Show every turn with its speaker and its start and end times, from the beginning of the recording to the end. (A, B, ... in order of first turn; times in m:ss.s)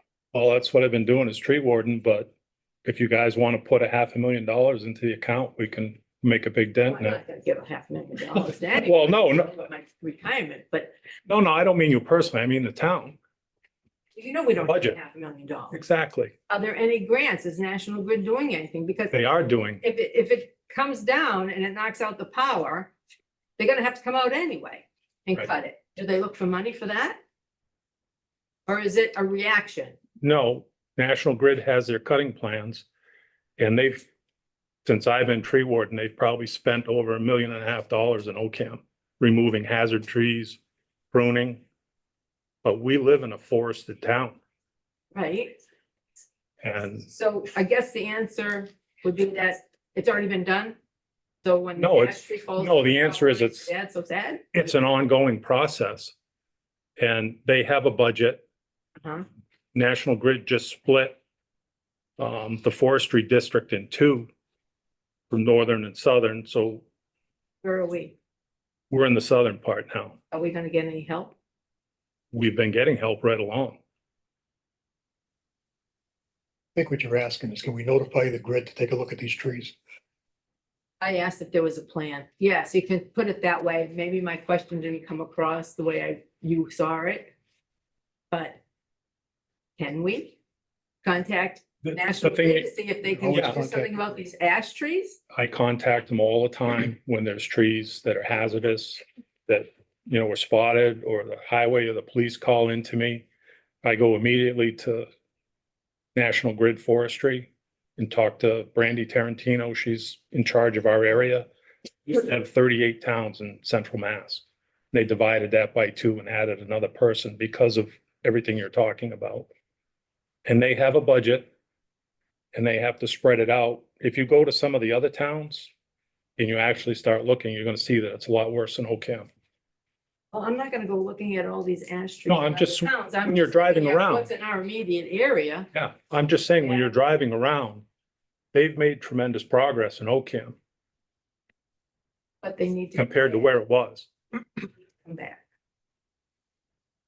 0:00.3-0:02.3 A
0:02.8-0:07.2 A
0:06.9-0:10.9 B
0:08.4-0:09.5 A
0:11.3-0:13.2 A
0:14.2-0:15.8 B
0:14.6-0:15.0 A
0:15.7-0:16.3 A
0:16.5-0:19.2 B
0:19.1-0:19.8 A
0:19.8-0:22.9 B
0:23.6-0:27.2 B
0:28.7-0:30.0 B
0:30.2-0:32.8 A
0:33.6-0:34.1 A
0:34.8-0:40.6 A
0:41.1-0:41.6 A
0:42.6-0:44.4 A
0:45.1-0:45.6 B
0:46.6-0:47.1 A
0:47.1-0:50.8 B
0:51.4-0:54.7 B
0:51.8-0:53.7 A
0:54.5-0:56.1 A
0:57.0-0:58.4 A
0:59.7-1:01.2 A
1:02.2-1:04.3 A
1:05.3-1:06.8 A
1:07.6-1:08.2 B
1:08.9-1:10.2 A
1:10.3-1:11.4 B
1:12.3-1:13.8 A
1:16.7-1:19.8 C
1:21.0-1:27.3 B
1:28.3-1:28.6 B
1:29.8-1:30.4 B
1:31.0-1:35.2 B
1:31.8-1:32.7 A
1:33.0-1:34.0 C
1:33.3-1:33.6 A
1:35.3-1:43.2 A
1:43.8-1:45.1 A
1:46.1-1:51.5 A
1:52.1-1:59.5 A
2:00.4-2:01.5 A
2:02.5-2:05.7 A
2:06.4-2:09.3 A
2:10.3-2:15.7 B
2:12.3-2:14.3 A
2:15.7-2:17.8 A
2:16.6-2:16.9 B
2:18.5-2:20.6 A
2:22.4-2:23.5 B
2:23.0-2:24.1 A
2:25.0-2:25.4 B